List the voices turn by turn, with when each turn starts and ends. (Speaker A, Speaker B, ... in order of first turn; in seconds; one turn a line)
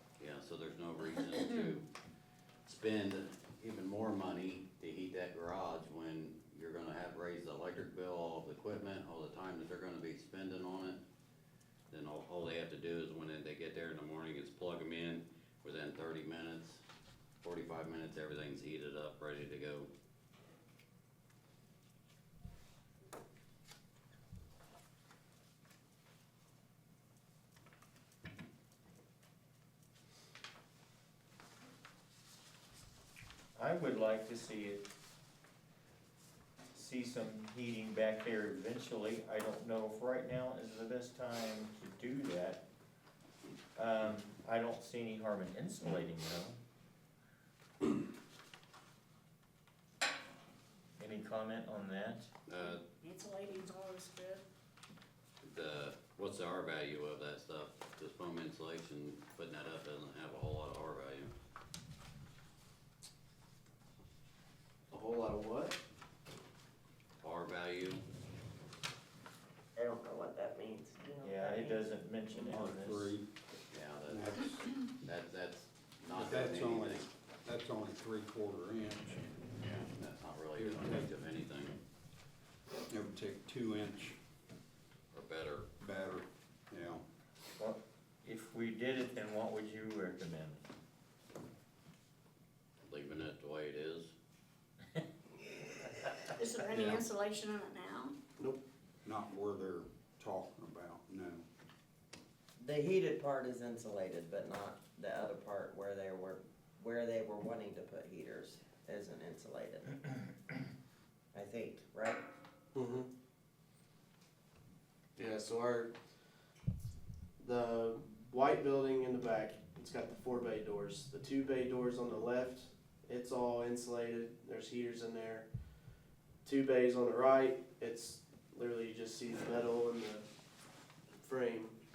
Speaker A: 0.2-1.9
Speaker A: 2.6-11.0
Speaker A: 11.9-16.8
Speaker A: 17.4-19.9
Speaker B: 33.5-34.8
Speaker B: 36.7-42.6
Speaker B: 43.8-46.5
Speaker B: 51.0-52.3
Speaker A: 52.5-52.8
Speaker C: 52.6-54.4
Speaker A: 55.4-61.3
Speaker D: 64.9-65.8
Speaker A: 67.2-68.0
Speaker E: 69.8-71.9
Speaker B: 71.2-73.1
Speaker F: 72.3-73.3
Speaker A: 73.7-77.1
Speaker F: 74.1-74.7
Speaker F: 76.1-79.3
Speaker A: 79.6-81.8
Speaker F: 80.5-81.1
Speaker F: 82.9-84.2
Speaker A: 85.1-85.7
Speaker F: 85.8-87.0
Speaker B: 87.6-90.6
Speaker A: 92.8-94.1
Speaker C: 96.4-98.1
Speaker F: 96.7-97.1
Speaker F: 99.0-101.4
Speaker E: 102.6-110.0
Speaker E: 111.3-112.2
Speaker D: 112.7-113.1
Speaker D: 115.2-115.9
Speaker D: 117.4-125.5
Speaker D: 126.4-130.3
Speaker D: 131.1-131.8